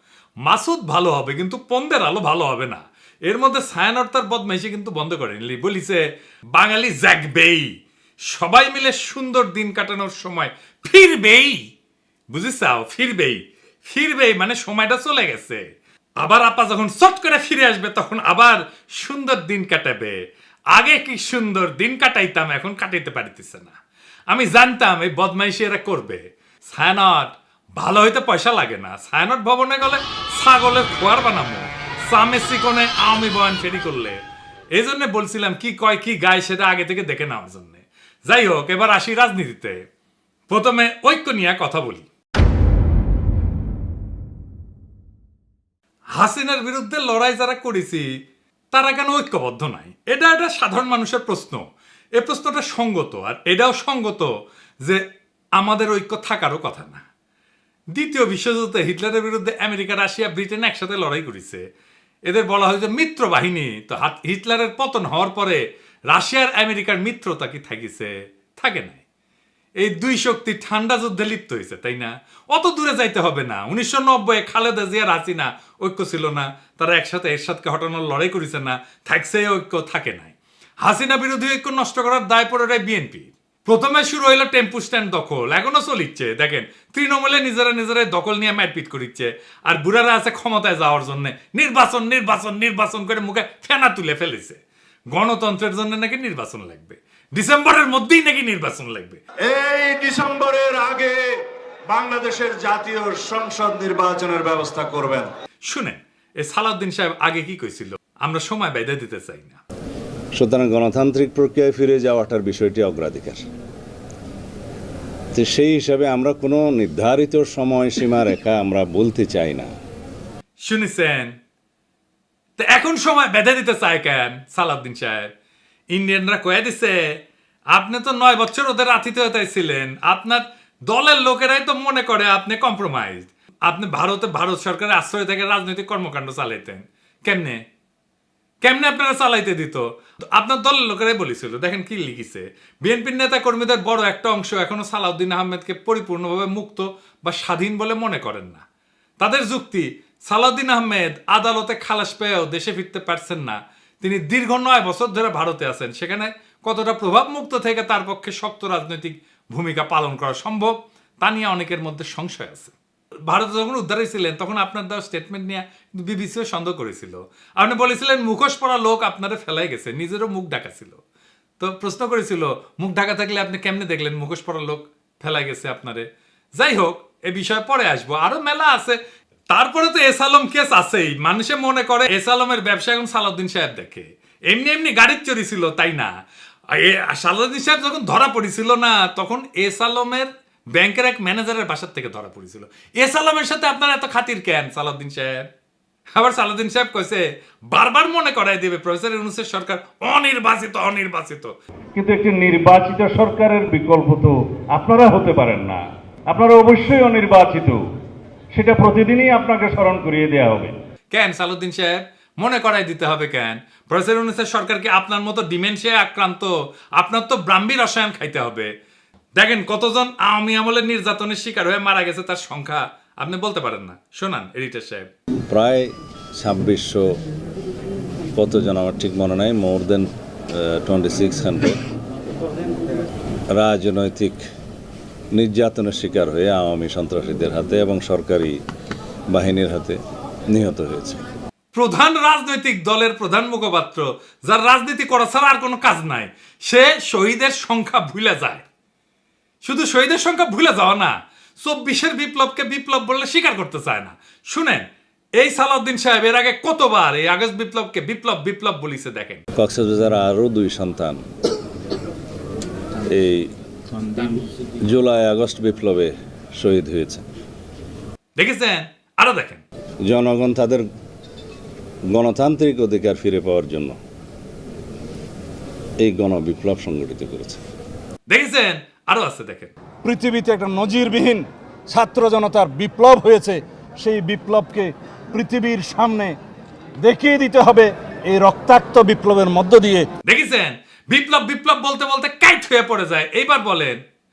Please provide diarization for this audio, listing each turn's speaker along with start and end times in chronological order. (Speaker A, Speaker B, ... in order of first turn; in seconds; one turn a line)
Speaker A: 0.5-6.0
Speaker A: 6.5-7.7
Speaker A: 8.3-11.6
Speaker A: 12.3-15.6
Speaker A: 16.2-20.2
Speaker A: 20.7-23.7
Speaker A: 24.3-34.2
Speaker A: 34.8-39.8
Speaker A: 40.5-42.0
Speaker A: 46.2-48.0
Speaker A: 48.7-51.6
Speaker A: 52.2-54.3
Speaker A: 55.6-57.0
Speaker A: 58.0-61.6
Speaker A: 62.3-65.6
Speaker A: 66.1-69.0
Speaker A: 69.8-94.6
Speaker A: 95.1-99.2
Speaker B: 99.5-101.2
Speaker B: 101.9-105.3
Speaker A: 105.7-109.6
Speaker C: 110.3-113.4
Speaker C: 115.3-119.7
Speaker A: 120.7-121.3
Speaker A: 122.6-125.3
Speaker A: 125.9-127.0
Speaker A: 127.7-137.6
Speaker A: 138.6-139.8
Speaker A: 140.3-148.6
Speaker A: 149.2-162.7
Speaker A: 163.3-171.0
Speaker A: 171.6-176.1
Speaker A: 176.6-179.0
Speaker A: 179.5-186.1
Speaker A: 186.7-195.5
Speaker A: 196.2-201.5
Speaker D: 201.9-207.8
Speaker D: 208.5-210.7
Speaker A: 211.1-218.7
Speaker A: 219.4-225.1
Speaker C: 225.5-227.1
Speaker C: 228.3-231.8
Speaker C: 233.5-234.4
Speaker C: 235.3-238.5
Speaker C: 239.3-240.0
Speaker C: 240.5-241.2
Speaker A: 241.7-248.6
Speaker A: 249.7-254.8
Speaker A: 255.4-259.4
Speaker C: 259.6-261.2
Speaker C: 263.1-263.5
Speaker C: 264.9-267.2
Speaker A: 268.4-269.6
Speaker C: 270.0-270.9
Speaker C: 272.1-273.9
Speaker C: 276.0-277.6
Speaker A: 278.3-279.7
Speaker E: 280.0-286.4
Speaker E: 287.0-290.1
Speaker A: 290.3-294.0